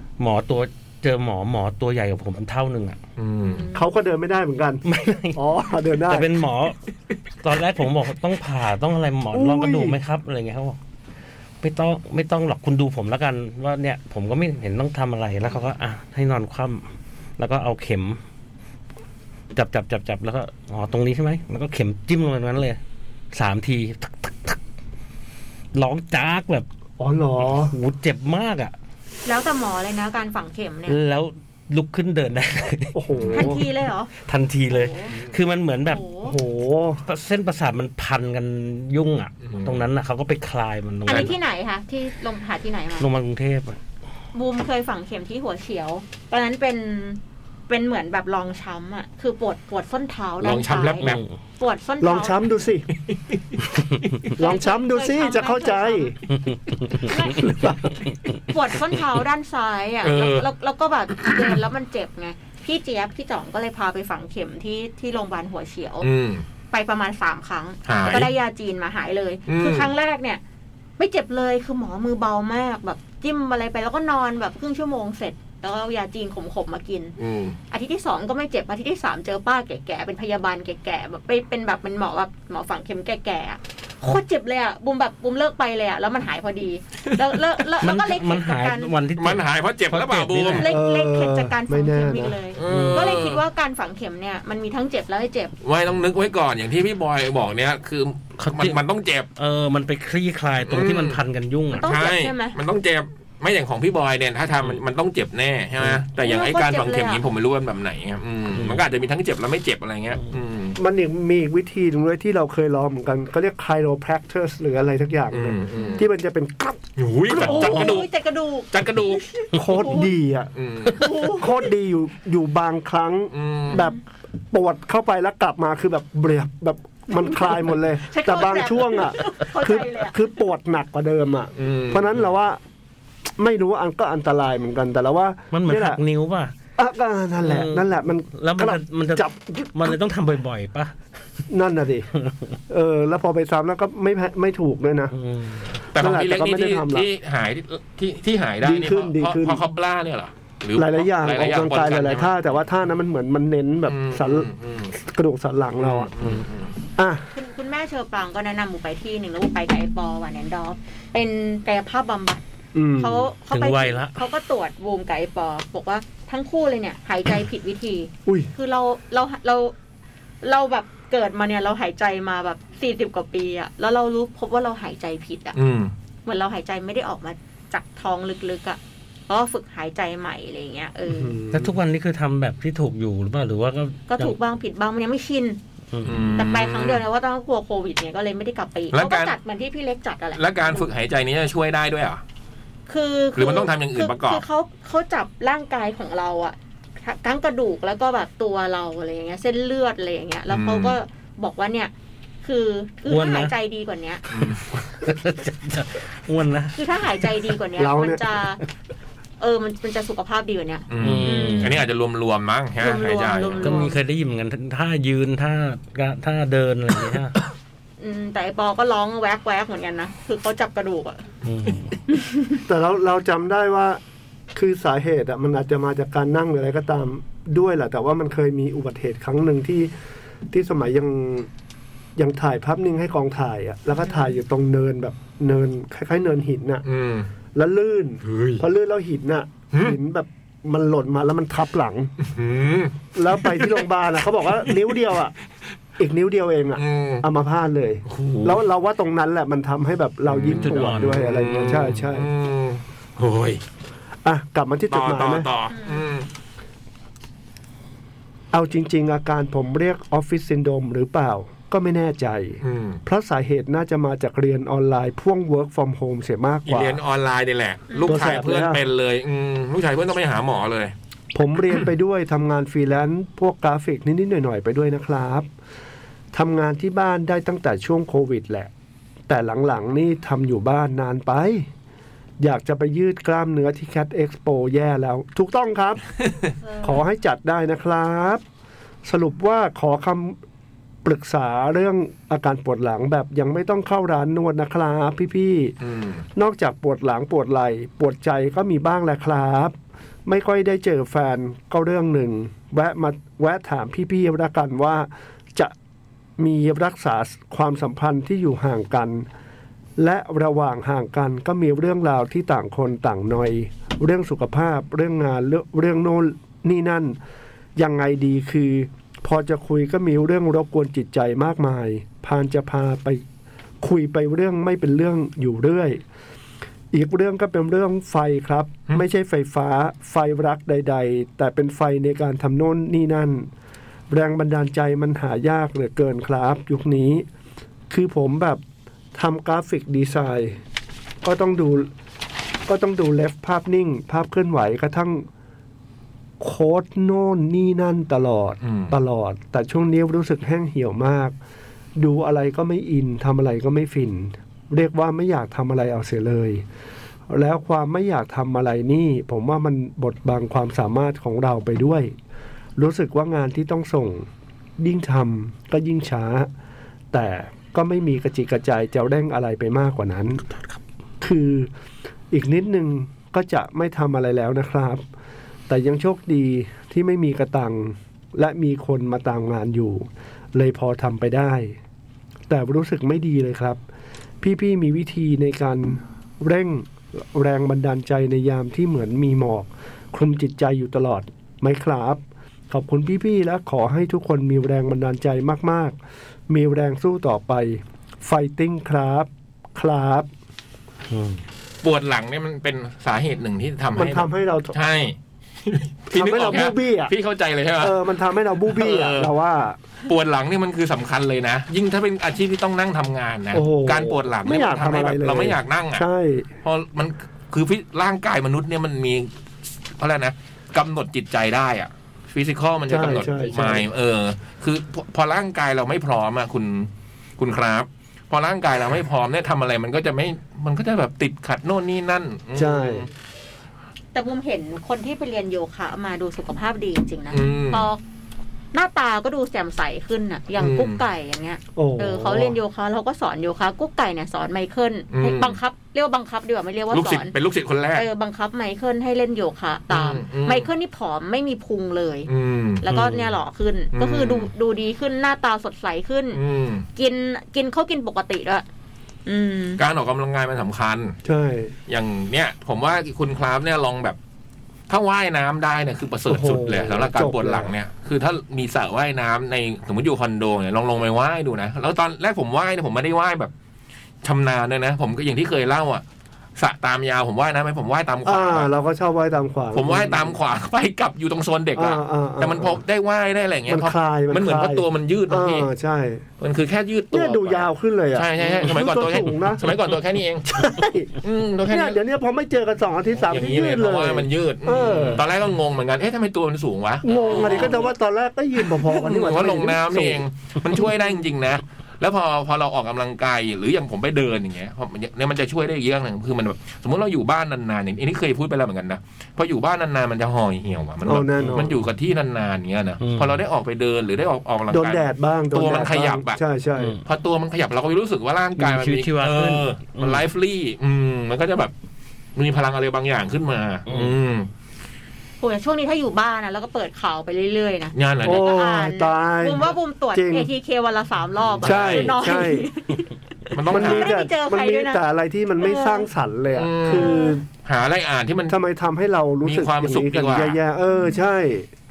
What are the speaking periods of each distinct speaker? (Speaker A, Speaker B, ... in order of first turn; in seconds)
Speaker A: 0.2-3.0, 4.9-5.4, 6.1-6.8, 7.4-10.8, 11.6-16.9, 17.4-18.2, 19.5-22.8, 23.3-24.6, 25.7-26.7, 27.6-28.7, 30.9-33.6, 34.2-36.0, 37.1-41.4, 43.0-43.8, 51.0-51.3, 56.3-58.4, 87.8-90.7, 92.7-93.1, 98.4-98.8, 99.4-101.9, 108.5-108.8, 135.5-136.6, 137.4-140.9, 142.2-142.5, 145.1-145.8, 163.5-164.2, 181.5-184.4, 185.9-186.2, 203.1-203.5, 204.9-206.8, 211.0-211.8, 213.6-217.4, 221.4-222.0, 250.5-251.3, 401.1-401.4, 452.9-453.2, 511.4-511.7, 513.0-513.4, 516.8-517.0, 518.6-520.2, 523.9-524.1
Speaker B: 3.2-3.6, 39.4-39.8, 50.4-51.2, 53.0-53.6, 60.0-60.5, 61.2-61.5, 66.0-66.5, 67.9-68.3, 69.5-69.9, 77.2-77.6, 89.2-90.7, 92.5-93.4, 95.6-99.3, 100.7-101.2, 101.7-110.8, 115.3-116.1, 117.0-118.1, 118.7-119.3, 120.6-121.1, 123.3-123.9, 131.6-132.1, 145.9-152.3, 153.9-154.9, 155.8-156.7, 175.6-175.9, 186.0-187.0, 188.9-189.3, 190.4-192.2, 193.4-194.4, 200.5-201.0, 204.3-204.7, 210.9-213.9, 236.8-237.3, 238.2-238.6, 242.2-243.8, 246.8-247.2, 248.1-248.6, 250.3-253.6, 254.9-256.3, 262.6-263.0, 266.7-270.9, 295.8-296.2, 348.6-348.9, 401.8-408.0, 408.7-409.3, 410.1-416.1, 416.6-433.1, 437.3-437.9, 440.6-441.0, 445.1-445.6, 446.9-448.1, 449.9-450.7, 452.3-452.9, 453.9-454.5, 456.3-456.9, 459.8-461.2, 461.9-464.2, 464.9-473.5, 474.2-476.0, 476.6-478.7, 479.7-485.7, 486.4-490.5, 491.2-492.0, 493.2-497.9, 498.7-516.4, 517.0-521.7, 522.4-524.5, 528.0-528.5, 531.5-532.2, 533.5-534.1, 536.5-538.6, 539.4-540.6
Speaker C: 3.5-3.9, 29.2-31.0, 33.3-34.1, 34.7-35.1, 35.9-36.4, 41.0-43.1, 44.3-51.1, 51.6-52.5, 54.4-56.1, 57.1-57.6, 58.5-66.1, 66.7-70.4, 71.0-77.2, 77.7-88.9, 90.5-95.5, 101.8-102.6, 106.2-107.2, 115.8-116.0, 117.4-120.1, 121.0-121.5, 128.0-130.2, 157.3-162.4, 163.0-169.7, 170.4-175.6, 176.2-181.4, 184.1-185.6, 186.4-190.9, 192.9-201.9, 202.4-204.2, 206.8-208.6, 209.4-211.8, 212.8-214.0, 218.0-221.2, 222.1-222.5, 234.0-234.4, 255.7-256.1, 267.9-268.4, 286.7-286.9, 434.1-438.0, 438.7-447.3, 447.9-452.3, 452.8-456.4, 457.0-458.6, 459.3-459.8, 525.4-535.0, 535.6-536.1, 536.9-537.4
Speaker D: 3.7-6.4, 9.3-10.0, 27.0-27.7, 32.9-33.6, 36.2-37.0, 52.0-52.9, 54.4-56.2, 90.6-92.4, 110.8-118.0, 119.5-120.5, 121.1-124.0, 124.5-132.6, 133.4-136.0, 136.8-140.0, 141.5-142.1, 142.7-145.1, 145.9-147.1, 148.6-149.6, 150.8-156.1, 157.0-157.3, 162.8-163.3, 181.1-181.8, 207.8-208.2, 222.7-224.0, 224.5-229.9, 230.5-231.5, 232.2-236.8, 237.6-242.1, 243.2-245.3, 246.0-252.3, 254.2-255.5, 258.5-267.0, 268.1-268.8, 271.3-275.5, 276.3-278.7, 279.3-281.7, 282.4-286.0, 286.8-288.4, 289.0-290.4, 291.1-295.8, 296.4-305.7, 306.4-309.3, 310.0-317.2, 317.8-323.2, 323.8-326.0, 326.9-333.5, 334.1-337.3, 337.9-338.6, 339.1-340.6, 341.2-341.9, 342.7-345.3, 346.4-351.4, 352.0-356.6, 357.3-362.1, 362.8-364.3, 364.8-366.5, 367.1-370.4, 371.2-371.7, 372.3-375.1, 375.7-381.8, 382.5-383.8, 384.4-396.0, 396.5-400.3, 403.9-404.8, 406.1-407.1, 407.8-409.8, 413.5-416.5, 422.9-423.9, 432.6-433.1, 441.8-442.6, 461.2-461.8, 466.3-467.7, 478.2-480.4, 481.8-482.8, 483.7-486.2, 487.1-489.7, 490.5-491.1, 491.7-495.2, 497.0-501.0, 511.0-511.8, 514.7-517.0, 528.2-530.5, 531.6-532.7, 533.7-537.5, 538.5-541.7